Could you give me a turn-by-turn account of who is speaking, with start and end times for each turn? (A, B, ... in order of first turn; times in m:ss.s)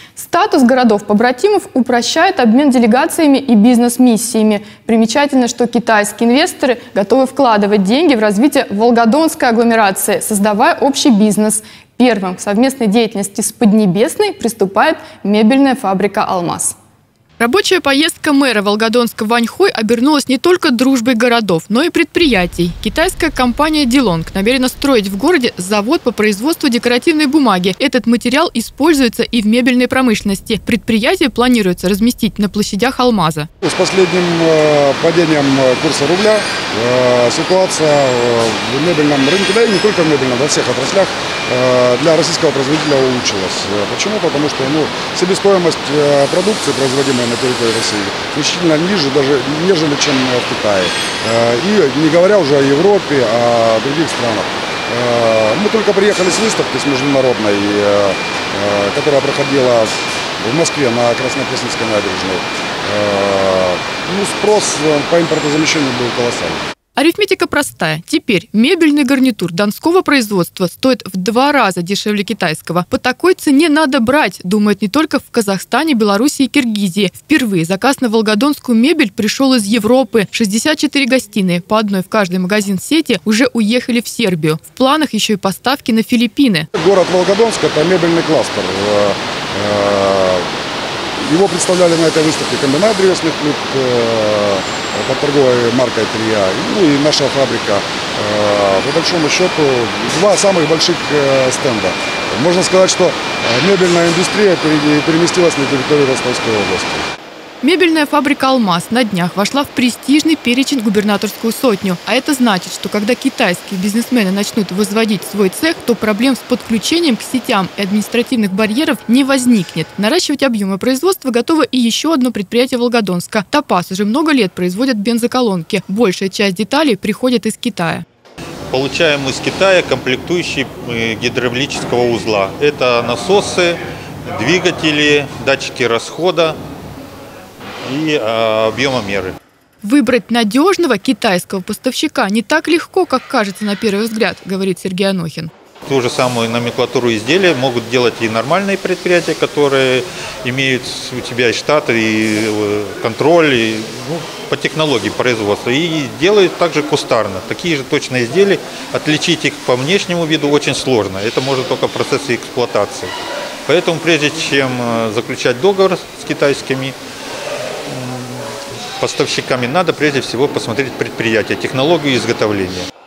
0:00.2-0:16.8 A
0:17.4-0:33.5 A
0:33.6-1:06.6 B
1:07.0-1:26.7 A
1:26.7-1:30.5 B
1:31.2-1:47.1 B
1:47.6-2:08.0 A
2:08.7-2:13.8 C
2:14.3-2:16.5 C
2:17.9-2:19.3 C
2:19.8-2:25.5 A
2:25.9-2:43.1 C
2:43.7-2:46.9 C
2:49.0-2:52.8 C